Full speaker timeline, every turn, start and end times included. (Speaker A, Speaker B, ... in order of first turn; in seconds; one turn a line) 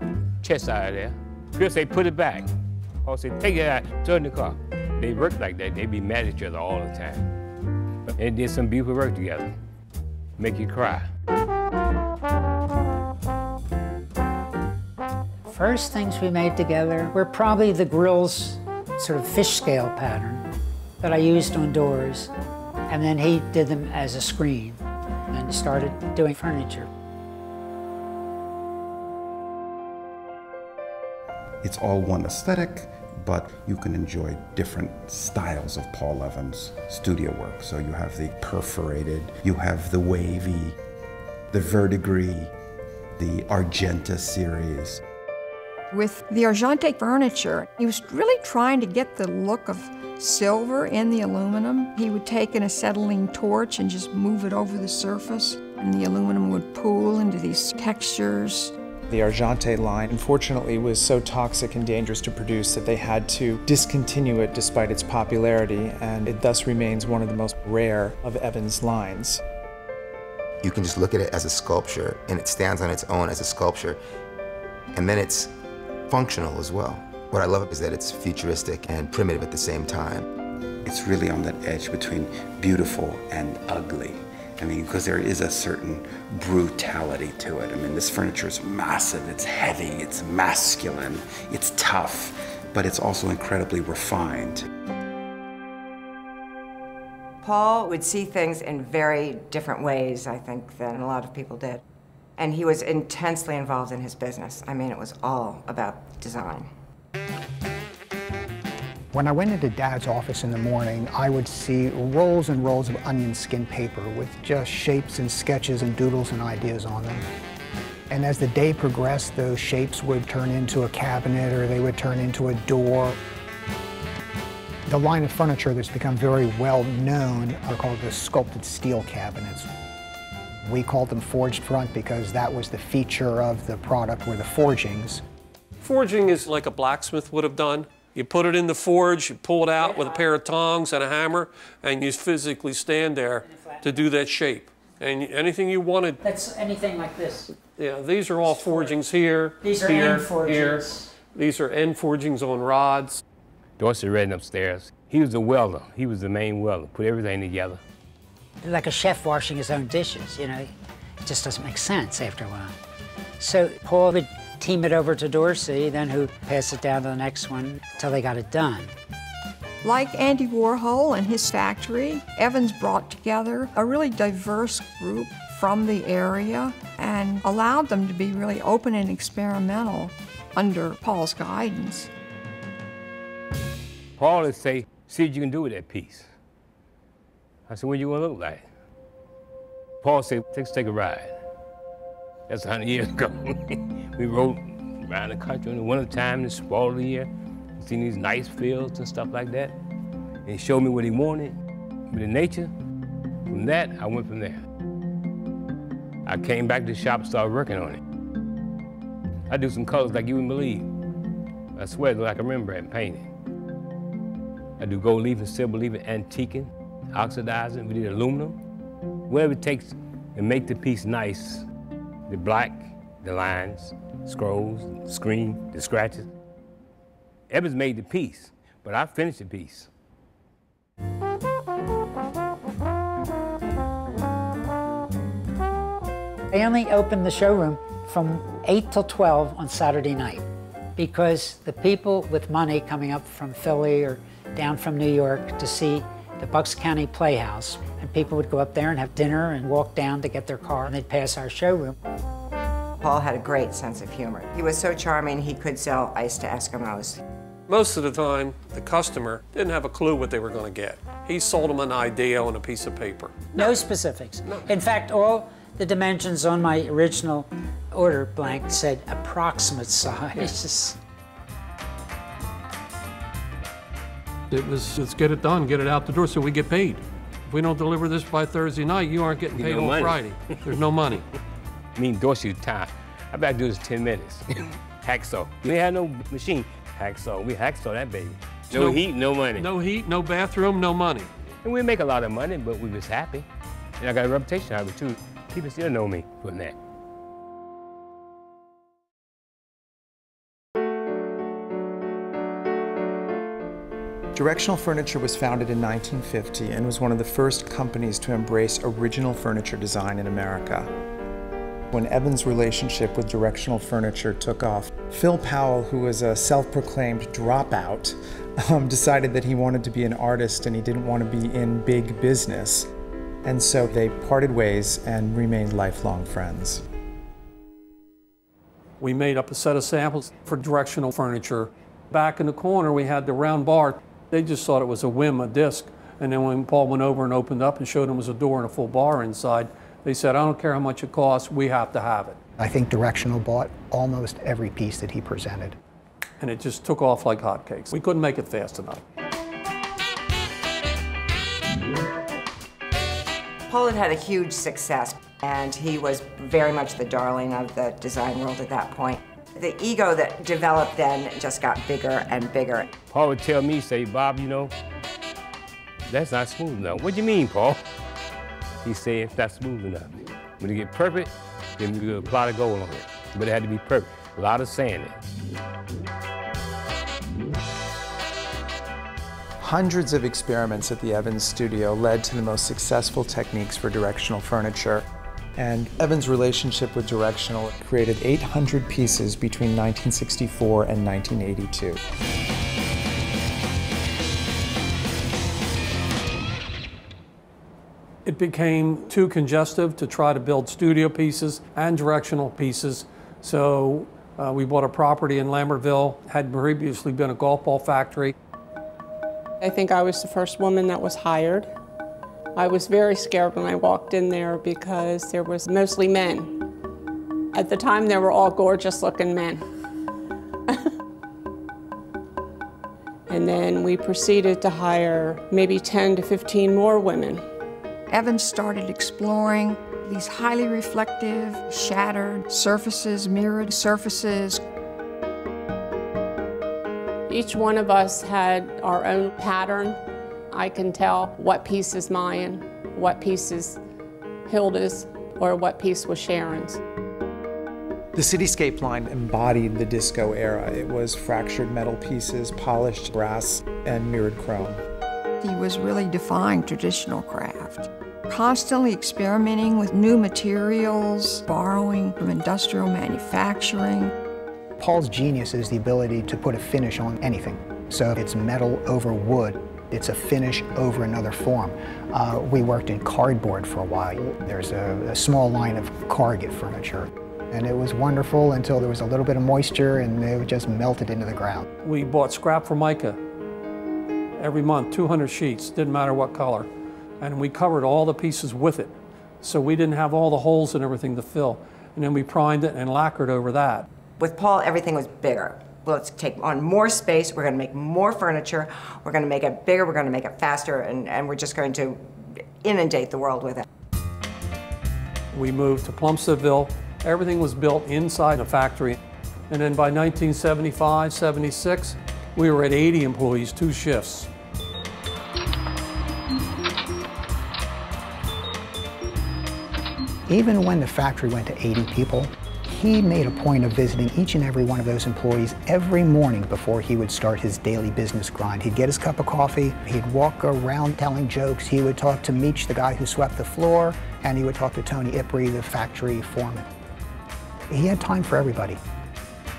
Speaker A: 0.4-2.5
Speaker A: 3.1-7.3
Speaker A: 8.1-9.5
Speaker A: 10.4-11.1
Speaker B: 15.5-20.5
Speaker B: 21.0-22.3
Speaker B: 22.9-24.8
Speaker B: 25.3-26.9
Speaker C: 31.6-40.8
Speaker C: 41.5-42.5
Speaker C: 43.2-45.0
Speaker D: 45.9-58.7
Speaker E: 59.1-69.4
Speaker F: 70.6-74.0
Speaker F: 74.9-75.5
Speaker F: 76.1-80.2
Speaker C: 80.9-94.7
Speaker G: 97.4-101.8
Speaker G: 102.4-106.7
Speaker H: 109.1-117.2
Speaker H: 118.1-123.2
Speaker H: 124.9-129.7
Speaker H: 130.6-135.2
Speaker I: 135.8-146.2
Speaker B: 139.8-140.2
Speaker B: 143.4-144.1
Speaker B: 146.2-147.5
Speaker I: 147.8-153.2
Speaker B: 148.6-148.9
Speaker B: 149.6-151.1
Speaker A: 153.8-157.8
Speaker B: 158.6-160.7
Speaker B: 161.2-162.7
Speaker B: 163.4-168.9
Speaker D: 169.8-182.1
Speaker A: 184.2-186.3
Speaker A: 187.7-188.6
Speaker A: 190.0-191.3
Speaker A: 192.5-199.8
Speaker A: 200.4-201.6
Speaker A: 202.1-202.7
Speaker A: 203.5-204.6
Speaker A: 206.2-208.0
Speaker A: 209.5-210.9
Speaker A: 211.8-213.2
Speaker A: 214.8-218.6
Speaker A: 219.3-221.6
Speaker A: 222.3-226.3
Speaker A: 227.5-229.9
Speaker B: 236.5-240.4
Speaker B: 241.0-251.9
Speaker G: 253.0-257.2
Speaker I: 257.7-263.5
Speaker B: 263.5-271.0
Speaker I: 274.5-281.2
Speaker A: 279.5-280.3
Speaker A: 281.9-284.4
Speaker A: 285.0-289.7
Speaker I: 288.7-289.0
Speaker I: 289.6-291.3
Speaker A: 291.6-293.4
Speaker A: 294.0-296.8
Speaker E: 304.3-310.9
Speaker E: 311.9-318.2
Speaker E: 318.7-322.9
Speaker E: 323.4-326.8
Speaker I: 329.0-342.4
Speaker H: 342.6-345.8
Speaker I: 346.4-349.0
Speaker G: 353.7-362.9
Speaker A: 363.1-364.7
Speaker A: 366.1-367.8
Speaker A: 368.8-375.1
Speaker E: 379.6-385.0
Speaker E: 385.6-392.0
Speaker I: 398.3-408.3
Speaker J: 409.6-411.7
Speaker J: 412.6-416.6
Speaker J: 417.5-419.6
Speaker J: 423.3-427.4
Speaker D: 428.1-434.6
Speaker J: 437.3-440.0
Speaker J: 440.5-443.8
Speaker J: 444.4-446.8
Speaker E: 448.1-454.8
Speaker D: 455.4-464.1
Speaker H: 464.8-481.6
Speaker I: 481.8-483.2
Speaker I: 484.4-486.7
Speaker I: 487.2-493.9
Speaker G: 494.2-503.6
Speaker I: 505.3-509.0
Speaker I: 509.5-514.3
Speaker H: 520.3-536.7
Speaker H: 537.7-538.8